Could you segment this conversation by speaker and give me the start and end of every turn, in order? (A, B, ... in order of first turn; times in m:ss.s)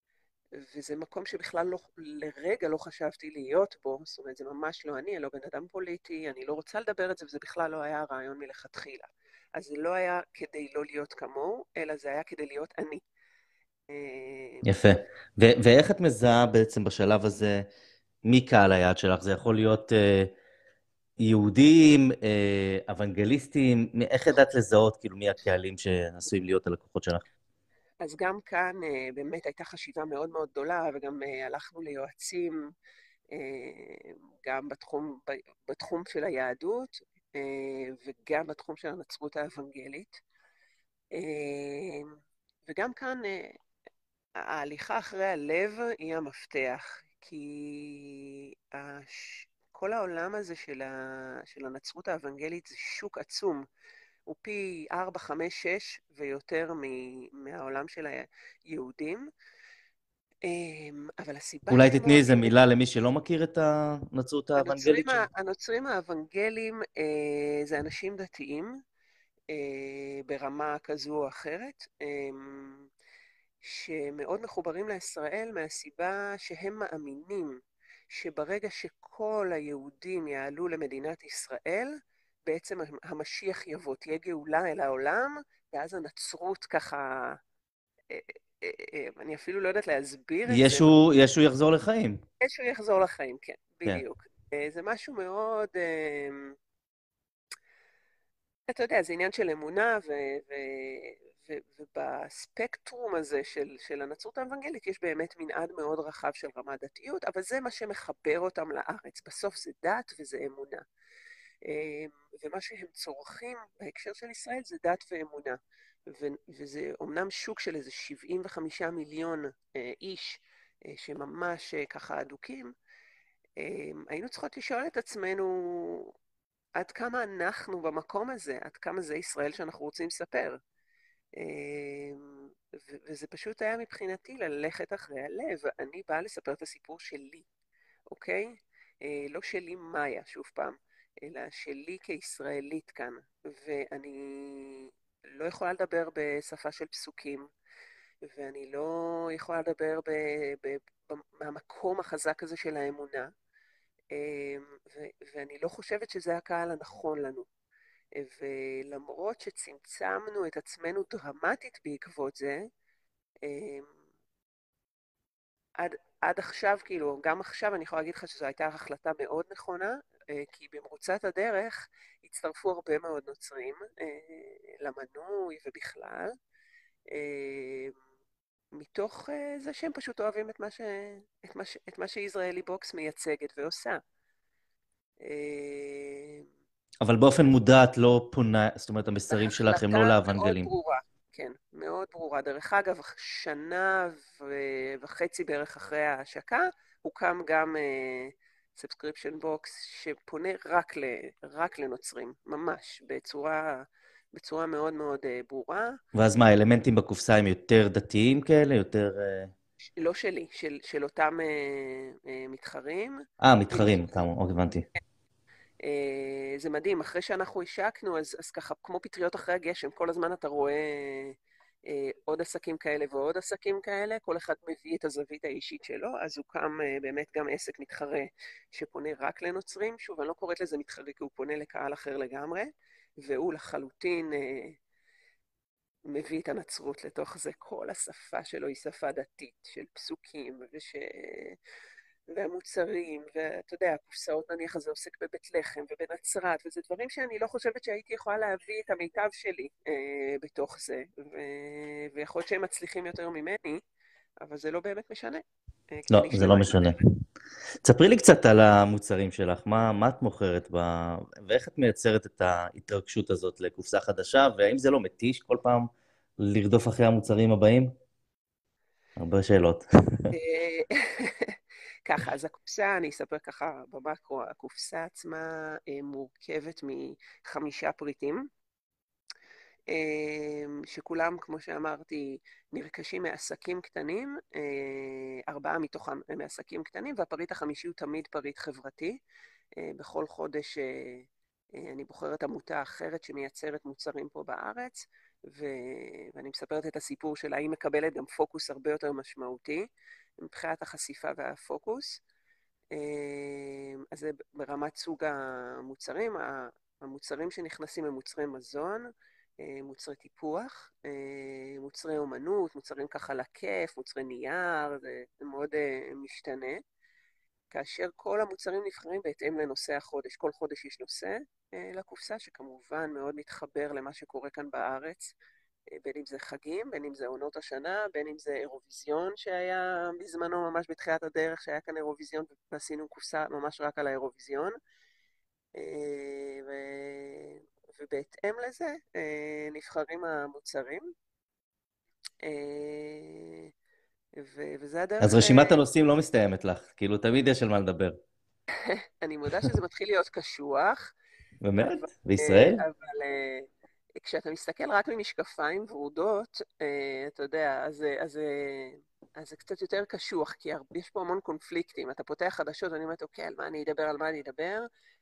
0:00.6-0:13.0 A
0:13.9-0:14.7 A
0:14.6-0:17.7 B
0:18.2-0:20.3 B
0:21.2-0:27.2 B
0:28.0-0:32.6 A
0:33.3-0:40.2 A
0:41.1-0:43.6 A
0:44.4-0:53.6 A
0:54.3-0:59.3 A
1:00.4-1:02.6 A
1:01.7-1:05.3 B
1:04.6-1:08.7 A
1:09.5-1:12.9 A
1:13.6-1:17.6 A
1:18.1-1:21.9 A
1:22.5-1:27.4 A
1:28.1-1:31.0 A
1:30.5-1:32.2 B
1:32.4-1:36.6 A
1:38.7-1:50.8 A
1:51.6-2:02.7 A
2:03.6-2:06.1 A
2:06.8-2:10.6 A
2:11.4-2:17.5 A
2:18.1-2:18.5 A
2:19.0-2:27.5 A
2:28.2-2:33.3 A
2:34.1-2:37.5 A
2:38.2-2:42.6 A
2:43.4-2:43.9 A
2:45.8-2:56.3 A
2:57.1-2:57.9 A
2:58.8-3:04.0 A
3:05.2-3:06.4 A
3:07.0-3:10.7 B
3:09.3-3:26.0 A
3:26.1-3:29.5 B
3:30.0-3:34.2 A
3:33.4-3:34.8 B
3:35.8-3:54.8 A
3:56.1-4:01.6 A
4:02.3-4:13.8 A
4:14.4-4:17.0 A
4:16.1-4:17.0 B
4:17.8-4:27.9 B
4:29.2-4:30.3 B
4:30.3-4:38.5 A
4:39.9-4:49.2 A
4:49.8-4:59.8 A
5:00.4-5:02.2 A
5:02.9-5:09.1 A
5:09.6-5:16.8 A
5:17.7-5:25.3 A
5:25.9-5:34.8 A
5:35.8-5:41.1 A
5:42.4-5:43.7 A
5:44.4-5:45.8 A
5:45.2-5:48.2 B
5:48.8-5:51.1 A
5:51.6-5:52.8 B
5:52.0-5:53.7 A
5:54.2-6:04.9 A